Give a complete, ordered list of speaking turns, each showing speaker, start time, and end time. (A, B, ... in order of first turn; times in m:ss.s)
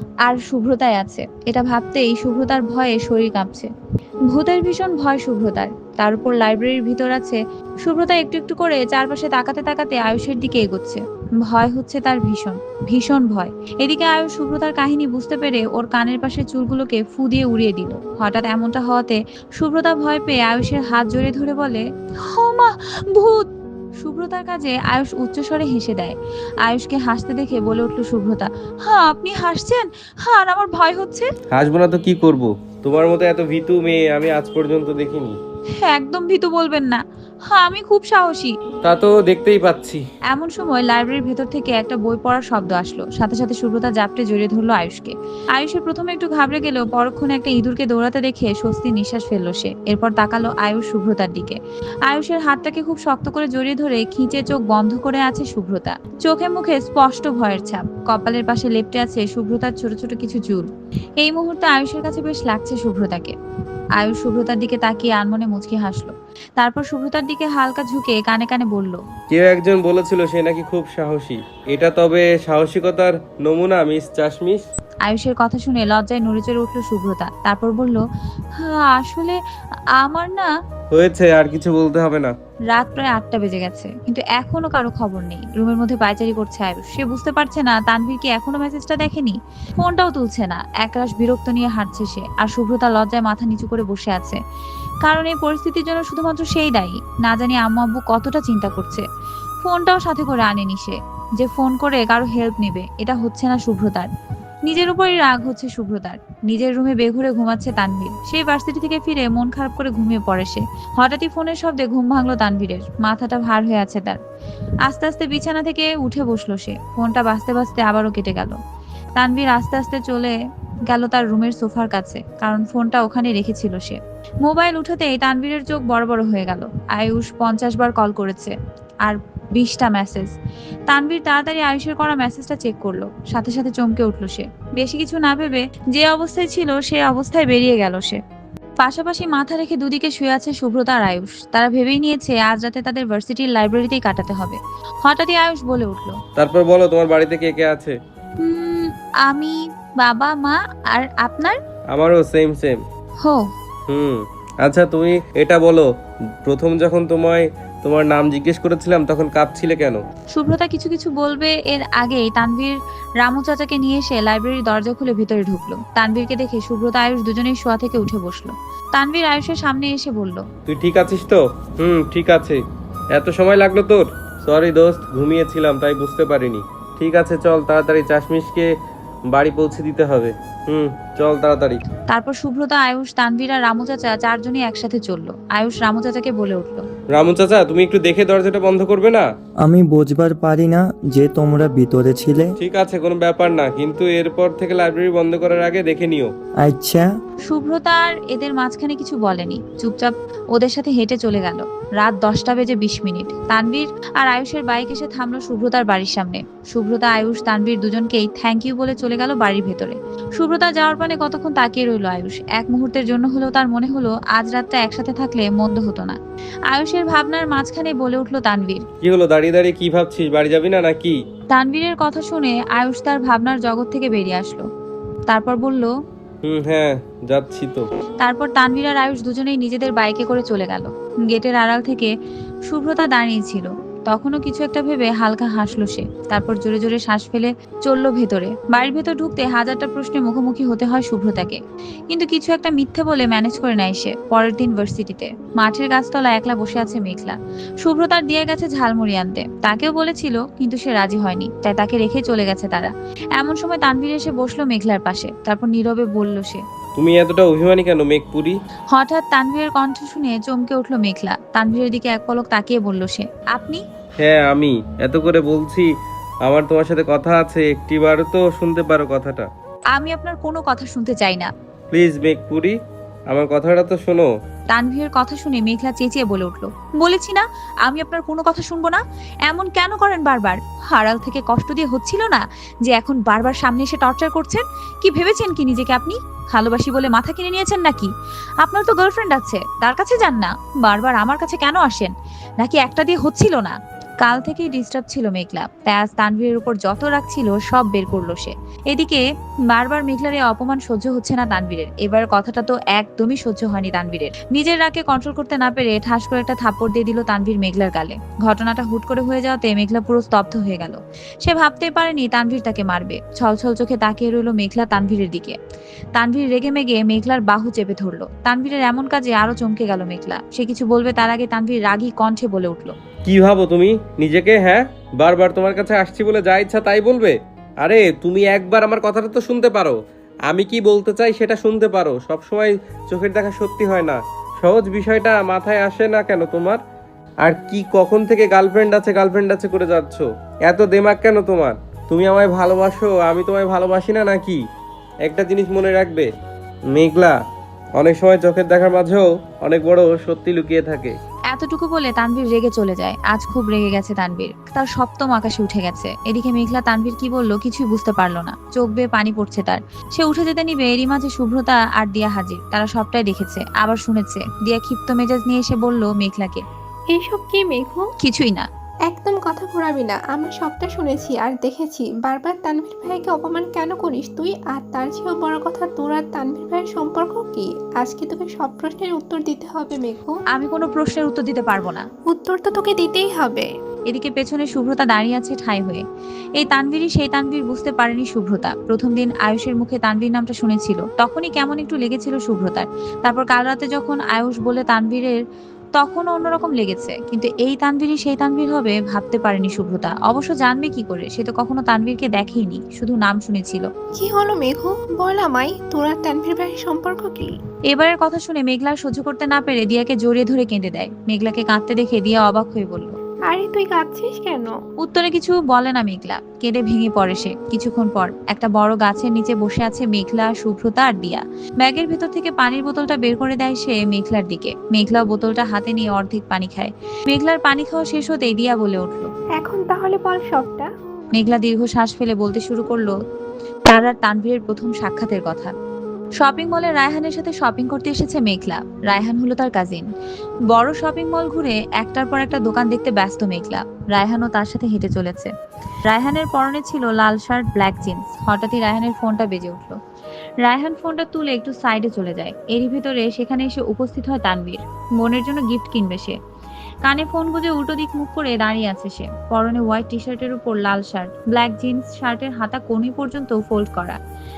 0:00.2-0:03.7 A
0:04.3-0:31.3 A
0:31.5-0:35.4 B
0:35.8-0:38.5 A
0:38.8-0:40.0 B
0:40.3-1:03.3 A
1:04.0-1:09.0 A
1:09.3-1:14.6 B
1:15.0-1:18.0 A
1:18.6-1:19.4 A
1:20.0-1:20.5 A
1:20.9-1:22.3 B
1:22.7-1:34.4 A
1:35.0-1:39.0 A
1:39.6-1:44.1 A
1:44.6-1:54.2 A
1:54.8-1:58.6 A
1:59.2-2:00.3 A
2:00.9-2:10.3 A
2:10.9-2:18.2 A
2:18.8-2:26.2 A
2:26.4-2:27.9 B
2:28.4-2:31.6 A
2:31.9-2:32.8 B
2:33.2-2:33.5 A
2:33.9-2:35.9 B
2:36.4-2:40.0 B
2:40.3-2:50.4 A
2:50.7-2:52.6 B
2:53.1-2:58.7 B
2:59.3-3:01.8 B
3:02.1-3:06.8 A
3:07.1-3:09.2 B
3:09.6-3:12.5 C
3:12.6-3:16.3 B
3:16.6-3:17.1 C
3:17.5-3:36.2 A
3:36.7-3:38.8 A
3:39.0-3:41.2 B
3:41.5-3:44.6 A
3:45.3-3:45.9 A
3:46.4-3:47.9 B
3:48.2-3:52.1 A
3:52.7-4:16.6 A
4:17.0-4:18.6 B
4:18.9-4:23.8 A
4:24.2-4:25.9 B
4:26.4-4:29.5 B
4:29.9-4:31.5 A
4:31.9-4:32.7 B
4:33.3-4:34.3 B
4:34.7-5:15.6 A
5:16.1-5:22.9 A
5:23.2-5:30.0 B
5:30.5-5:36.8 B
5:37.4-5:44.6 B
5:45.2-5:46.3 B
5:46.9-5:47.4 B
5:48.0-5:51.2 B
5:51.5-6:06.6 A
6:07.1-6:08.0 D
6:08.2-6:08.7 A
6:09.1-6:20.3 D
6:20.5-6:22.1 A
6:22.3-6:23.7 D
6:24.1-6:26.0 A
6:26.6-6:35.4 A
6:36.0-6:43.9 A
6:44.2-6:47.5 D
6:47.9-6:53.2 A
6:53.5-6:54.7 D
6:55.0-7:09.3 A
7:09.6-7:10.9 D
7:11.3-7:13.2 A
7:13.9-7:15.7 A
7:16.4-7:20.1 A
7:20.7-7:25.5 A
7:26.0-7:30.0 A
7:30.6-7:36.4 A
7:37.0-7:44.2 A